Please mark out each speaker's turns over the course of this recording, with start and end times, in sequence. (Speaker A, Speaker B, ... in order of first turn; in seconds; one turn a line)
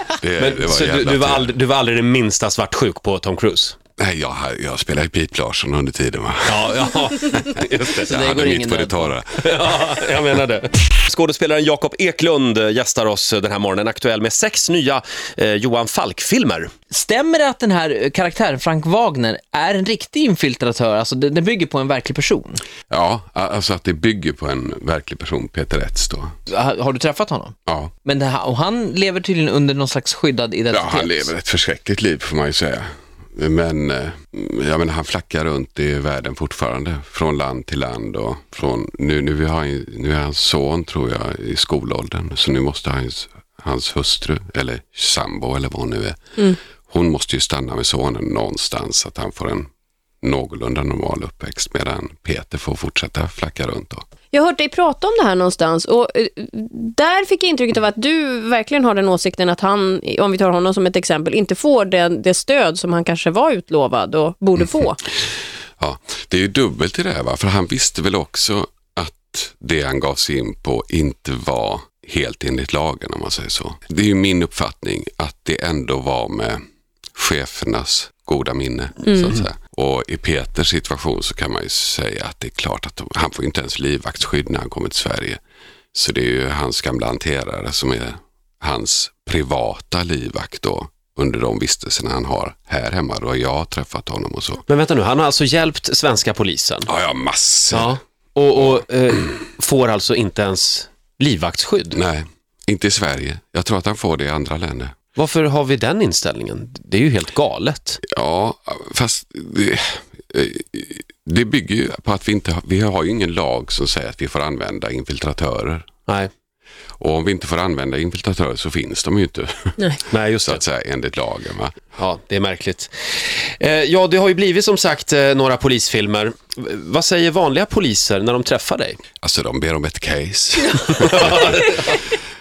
Speaker A: 0.2-1.6
Speaker B: 0.4-3.8
Speaker A: 4.0-9.4
Speaker B: 6.5-8.1
Speaker C: 8.0-9.1
Speaker B: 9.4-16.7
Speaker C: 16.9-22.6
Speaker A: 22.9-26.3
Speaker C: 26.5-31.3
Speaker A: 27.7-27.9
Speaker A: 30.7-49.7
Speaker A: 50.2-54.0
Speaker D: 54.3-65.0
Speaker A: 65.8-76.6
Speaker A: 77.2-85.4
Speaker D: 79.1-79.3
Speaker A: 85.9-94.6
Speaker B: 94.7-96.9
Speaker A: 96.9-98.0
Speaker B: 97.7-102.0
Speaker A: 101.9-105.0
Speaker B: 105.2-108.0
Speaker A: 108.1-115.9
Speaker A: 117.0-121.8
Speaker B: 120.1-120.6
Speaker B: 122.0-129.0
Speaker A: 129.2-131.8
Speaker B: 131.0-131.7
Speaker D: 131.6-131.9